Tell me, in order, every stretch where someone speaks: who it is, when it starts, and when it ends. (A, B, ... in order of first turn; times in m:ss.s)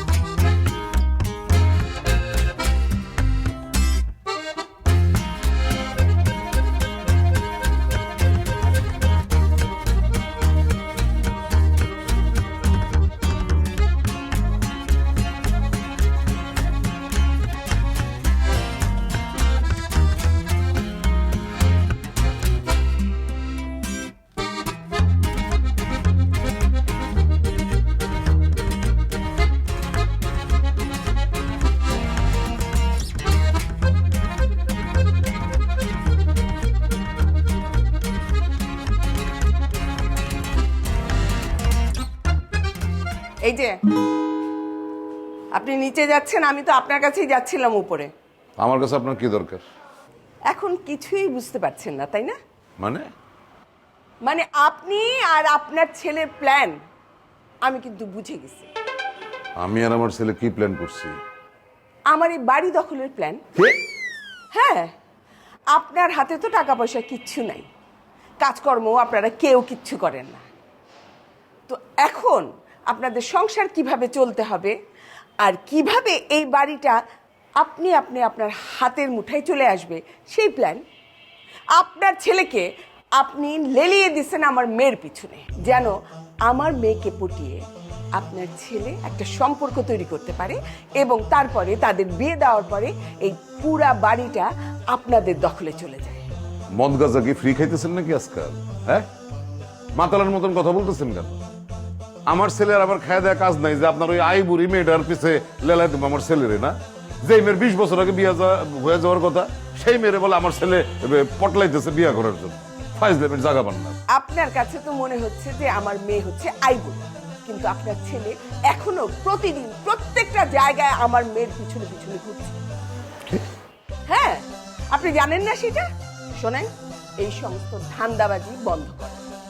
0:43.4-0:43.7 A
0:45.5-0:48.1 A
0:48.6-0:49.6 B
0:50.5-0:52.4 A
0:52.8-0:53.0 B
0:54.2-0:56.7 A
0:57.6-0:58.7 A
0:59.6-1:01.2 B
1:02.1-1:03.4 A
1:04.5-1:04.9 A
1:05.7-1:07.7 A
1:08.4-1:10.4 A
1:11.7-1:14.7 A
1:15.4-1:16.9 A
1:17.6-1:20.8 A
1:21.8-1:22.6 A
1:23.2-1:25.9 A
1:26.4-1:27.6 A
1:28.2-1:36.2 A
1:36.8-1:39.0 B
1:39.9-1:41.4 B
1:42.3-1:54.0 B
1:54.1-2:02.6 A
2:04.1-2:05.8 A
2:06.4-2:06.7 A
2:07.2-2:09.2 A